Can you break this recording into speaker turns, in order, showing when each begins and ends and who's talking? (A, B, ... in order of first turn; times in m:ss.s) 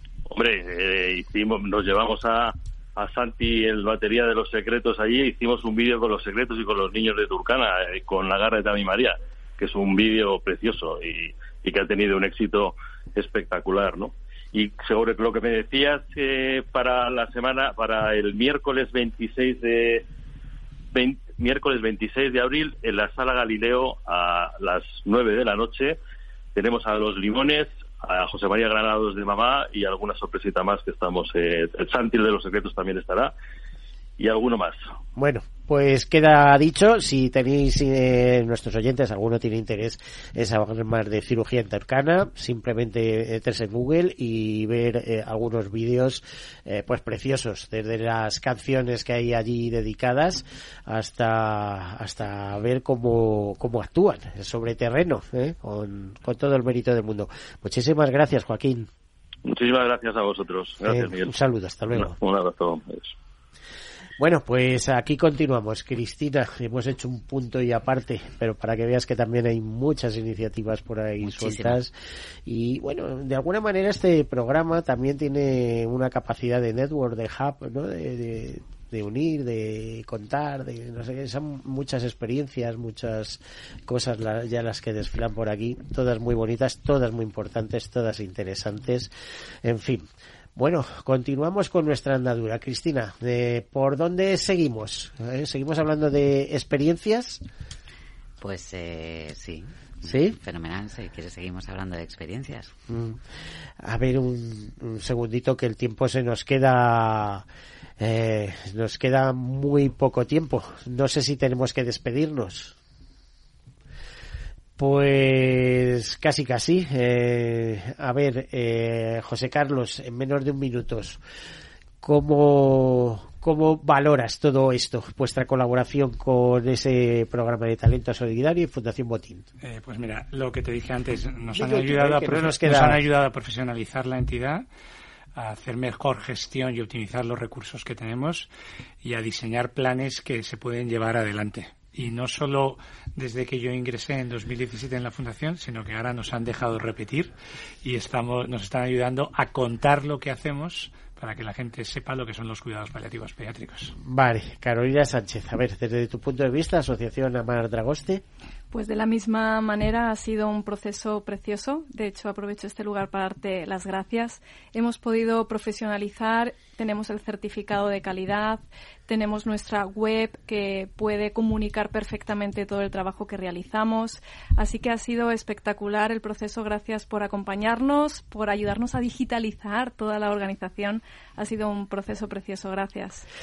0:00.3-0:20.0 A
0:20.9-0:26.0 A
0:26.5-0:33.3 A
0:34.2-0:34.8 A
0:35.2-0:58.9 B
0:59.4-1:01.3 A
1:00.8-1:02.2 B
1:01.9-1:03.1 A
1:04.2-1:11.9 B
1:11.2-1:11.8 C
1:12.5-1:29.1 B
1:29.6-1:30.0 B
1:30.6-1:37.4 B
1:38.4-1:42.7 C
1:40.0-1:40.4 B
1:42.9-1:43.2 B
1:43.8-1:47.4 B
1:48.0-1:52.7 B
1:54.8-2:01.2 B
2:02.0-2:09.5 B
2:09.6-2:14.6 D
2:11.5-2:13.0 B
2:15.4-2:18.5 D
2:19.0-2:27.3 D
2:27.8-2:33.9 D
2:34.0-2:38.2 B
2:38.7-3:03.2 E